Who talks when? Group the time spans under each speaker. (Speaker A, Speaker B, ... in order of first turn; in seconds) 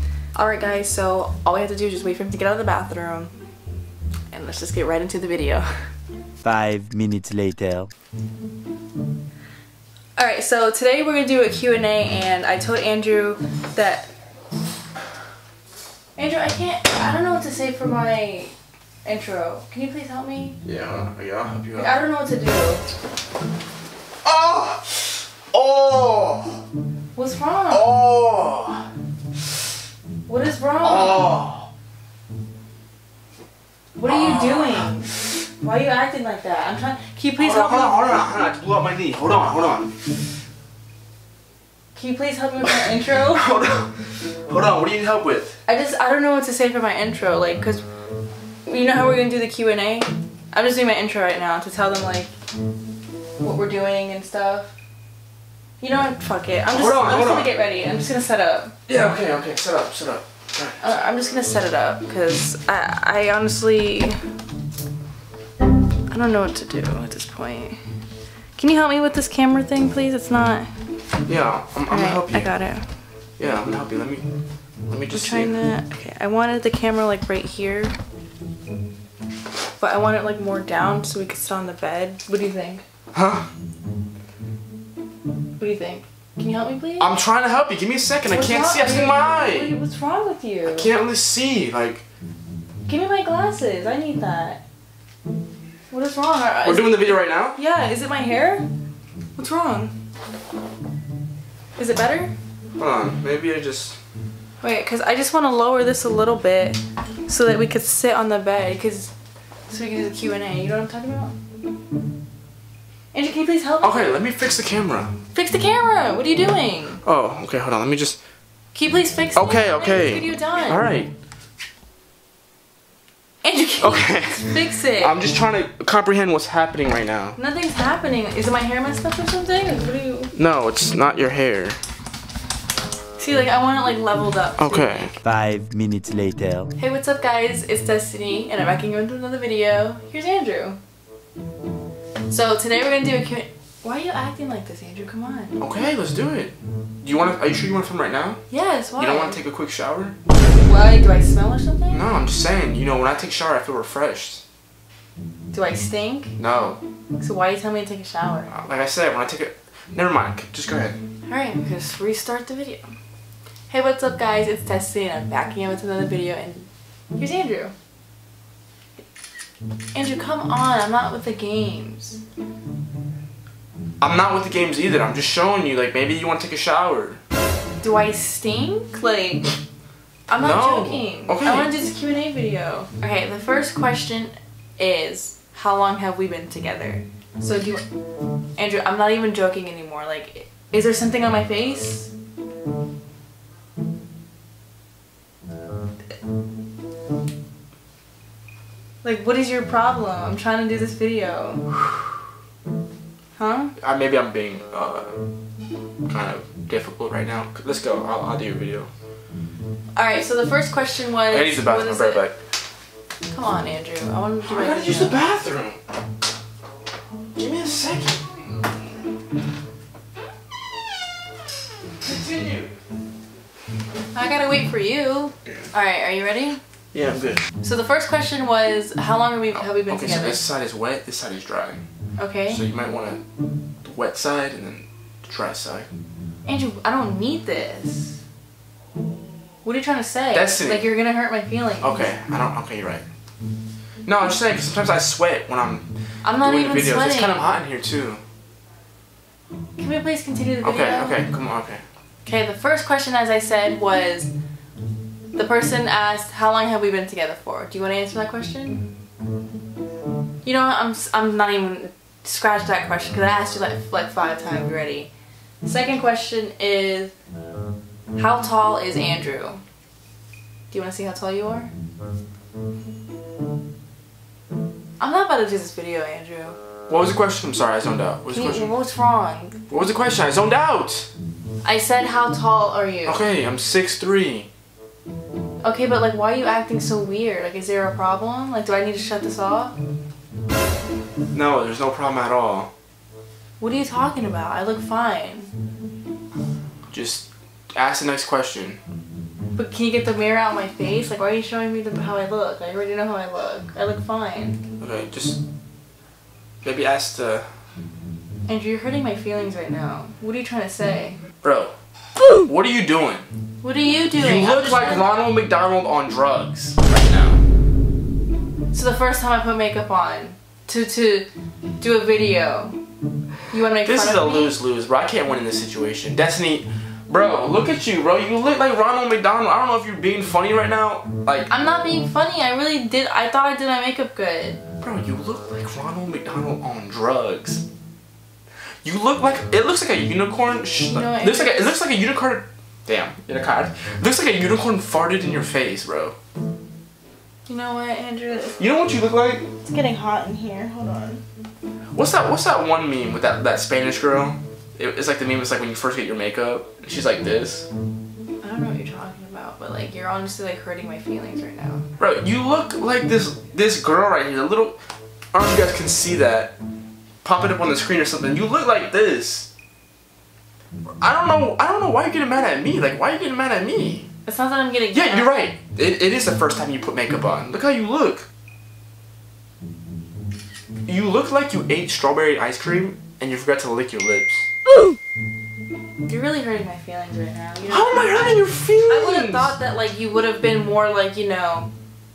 Speaker A: 0.3-3.3, 4.3-5.7, 10.2-14.1, 16.1-18.5, 19.0-20.6, 21.8-22.8, 27.1-27.9, 30.3-31.3, 34.0-38.3, 41.9-43.5, 45.6-47.8, 48.6-52.3, 53.4-54.7, 55.8-58.7, 60.8-64.2, 66.1-67.8, 68.5-70.7, 71.9-72.8, 75.1-77.9, 79.8-82.8, 85.6-87.1, 88.2-90.9, 92.9-94.6, 95.9-98.7, 99.3-99.9, 101.8-102.3, 104.6-109.1, 109.7-111.3, 113.1-114.2, 115.3-117.0, 118.7-120.8, 123.4-125.2, 127.3-130.3, 133.2-135.2, 136.8-140.8, 142.3-145.6, 148.5-149.4, 150.6-152.0, 155.5-156.4, 157.2-158.5, 161.2-162.9, 163.7-167.7, 169.9-172.2, 177.8-179.6, 180.3-187.8, 188.6-192.1, 199.0-201.7, 203.4-203.7, 209.9-212.2, 213.3-215.2, 224.1-226.6, 227.6-230.4, 232.2-232.6, 236.4-238.2, 239.6-242.1, 246.2-247.4, 249.8-251.2, 252.2-254.3, 255.3-258.9, 260.4-265.1, 265.6-267.1, 268.1-269.6, 270.7-271.7, 275.0-276.6, 278.3-279.6, 281.6-283.2, 285.6-289.7, 293.6-295.5, 299.5-304.6, 308.5-311.2, 313.6-315.2, 318.7-321.3, 321.8-322.8, 323.5-324.5, 331.5-334.6, 340.8-341.7, 347.5-348.6, 349.6-351.2, 358.4-361.8, 374.2-375.3, 386.1-391.7
Speaker B: 6.4-7.9, 135.2-136.7
Speaker C: 20.6-22.0, 24.2-26.6, 27.7-28.9, 30.8-31.7, 34.0-35.0, 37.4-40.0, 42.6-45.6, 56.7-57.5, 58.9-60.8, 71.2-72.5, 73.4-74.3, 74.8-75.5, 83.1-83.5, 87.0-89.7, 90.6-92.0, 96.6-97.6, 102.8-104.0, 113.8-115.1, 117.0-118.2, 119.3-121.1, 123.8-127.4, 130.3-131.8, 134.6-135.1, 145.6-148.4, 149.0-150.2, 151.9-154.4, 156.4-156.8, 158.5-161.0, 174.0-177.2, 180.4-181.7, 203.8-205.1, 206.1-208.9, 211.3-212.3, 214.4-215.8, 217.3-218.7, 222.0-222.7, 226.9-227.4, 229.8-231.8, 232.5-233.2, 233.8-235.9, 240.3-240.9, 241.8-243.0, 244.1-245.9, 246.4-248.2, 250.6-251.8, 276.9-278.7, 279.7-281.1, 283.1-284.5, 291.3-292.7, 296.9-298.8, 304.8-305.4, 306.6-307.4, 311.4-311.7, 312.4-313.2, 314.2-317.4, 323.8-331.5, 334.8-337.6, 338.8-346.1, 348.6-349.5, 351.9-357.7, 362.0-364.8, 365.3-366.5, 367.2-369.5, 371.0-374.1, 374.9-378.3, 380.9-384.4, 387.7-389.5